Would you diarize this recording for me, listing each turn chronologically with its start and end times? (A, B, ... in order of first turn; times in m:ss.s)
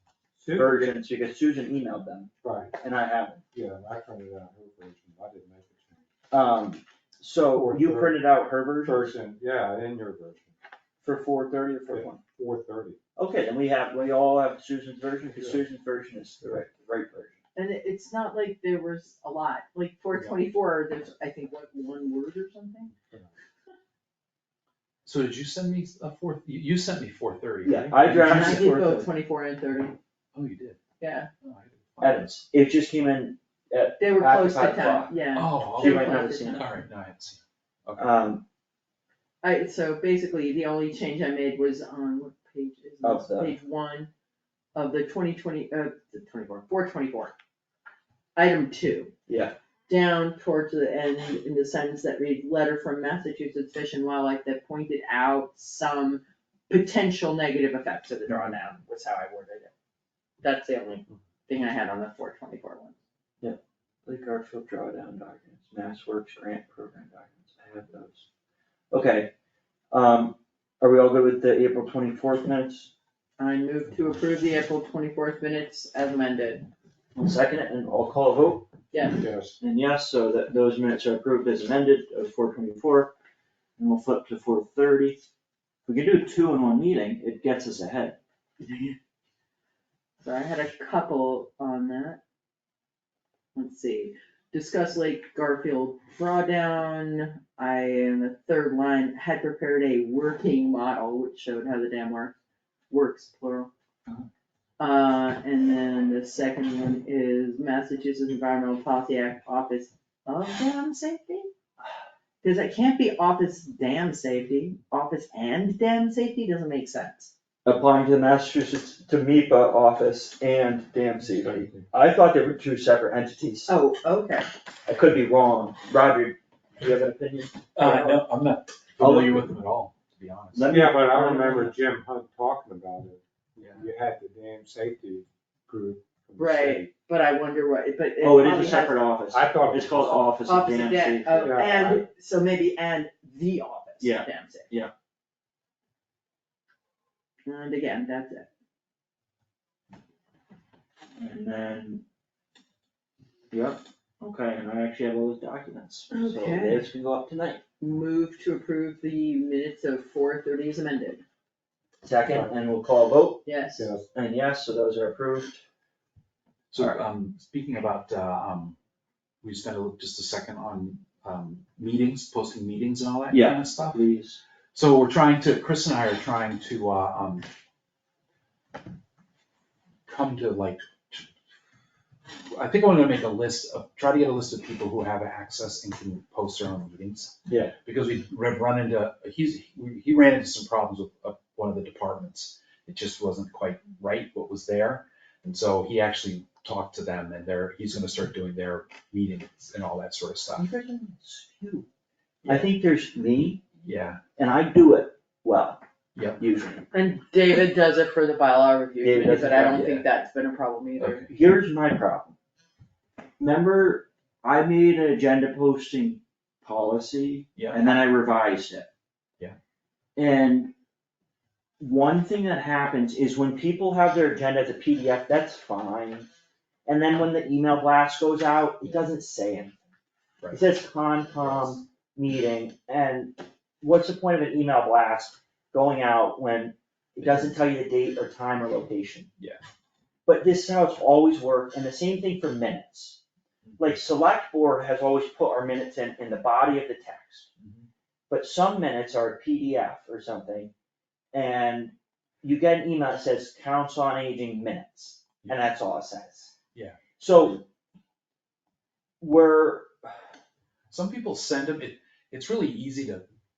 0:00.4-0:01.0 A
0:00.5-0:03.4 B
0:02.4-0:02.7 A
0:03.5-0:06.0 A
0:06.3-0:09.1 B
0:07.5-0:08.2 A
0:08.8-0:10.5 A
0:11.0-0:12.2 B
0:11.9-0:13.0 A
0:13.2-0:17.4 B
0:15.3-0:15.6 A
0:17.5-0:22.9 C
0:25.0-0:28.6 D
0:27.6-0:29.1 B
0:28.1-0:30.0 C
0:30.3-0:30.8 D
0:31.0-0:31.3 C
0:31.4-0:32.3 D
0:32.0-0:35.2 B
0:34.0-0:36.7 C
0:35.3-0:38.1 D
0:35.7-0:36.7 B
0:38.0-0:38.4 B
0:39.4-0:44.1 C
0:43.0-0:43.6 B
0:44.7-0:47.3 C
0:48.3-0:49.1 C
0:49.3-0:49.6 B
0:49.9-0:59.7 C
1:00.4-1:03.0 C
1:03.4-1:08.2 B
1:08.9-1:09.3 B
1:09.9-1:12.9 B
1:13.4-1:16.7 C
1:17.1-1:18.7 B
1:18.9-1:19.2 C
1:19.2-1:19.6 A
1:19.6-1:23.1 B
1:23.8-1:25.2 B
1:25.8-1:28.9 B
1:30.2-1:32.2 C
1:33.5-1:42.3 C
1:42.9-1:43.7 C
1:44.8-1:51.5 C
1:52.4-1:57.3 C
1:57.6-2:03.7 B
2:01.2-2:01.9 A
2:03.7-2:04.5 C
2:04.8-2:08.2 B
2:07.8-2:10.8 D
2:09.0-2:09.5 B
2:10.5-2:11.7 B
2:10.7-2:16.9 A
2:13.6-2:13.8 D
2:16.4-2:19.0 C
2:18.2-2:22.0 B
2:19.3-2:20.4 A
2:20.4-2:24.7 C
2:21.4-2:21.9 A
2:24.0-2:24.9 B
2:27.4-2:28.5 C
2:31.2-2:32.0 B
2:33.5-2:37.6 B
2:36.1-2:36.9 C
2:37.8-2:41.2 C
2:42.0-2:43.4 B
2:43.4-2:43.9 C
2:43.8-2:44.1 A
2:44.1-2:45.6 B
2:46.7-2:48.8 D
2:49.4-2:54.0 D
2:53.3-2:54.4 B
2:54.7-2:57.5 D
3:00.0-3:01.3 D
3:02.5-3:20.7 D
3:07.5-3:07.7 B
3:20.6-3:21.9 B
3:22.4-3:22.7 D
3:22.4-3:23.6 B
3:23.8-3:24.2 D
3:24.4-3:25.8 B
3:26.4-3:26.9 B
3:26.9-3:31.3 C
3:29.0-3:30.0 B
3:31.0-3:31.3 D
3:31.3-3:32.4 B
3:33.4-3:38.9 B
3:37.6-3:38.0 D
3:40.2-3:40.7 B
3:41.8-3:46.3 B
3:46.8-3:49.8 B
3:50.4-3:50.7 D
3:50.5-3:59.3 B
3:51.4-3:51.7 D
3:57.2-3:57.6 D
4:00.2-4:03.2 B
4:03.6-4:04.0 D
4:03.8-4:07.5 B
4:07.6-4:07.9 D
4:08.3-4:10.7 B
4:11.3-4:16.5 B
4:15.4-4:15.7 D
4:17.2-4:17.6 B
4:19.2-4:19.9 B
4:20.9-4:23.2 D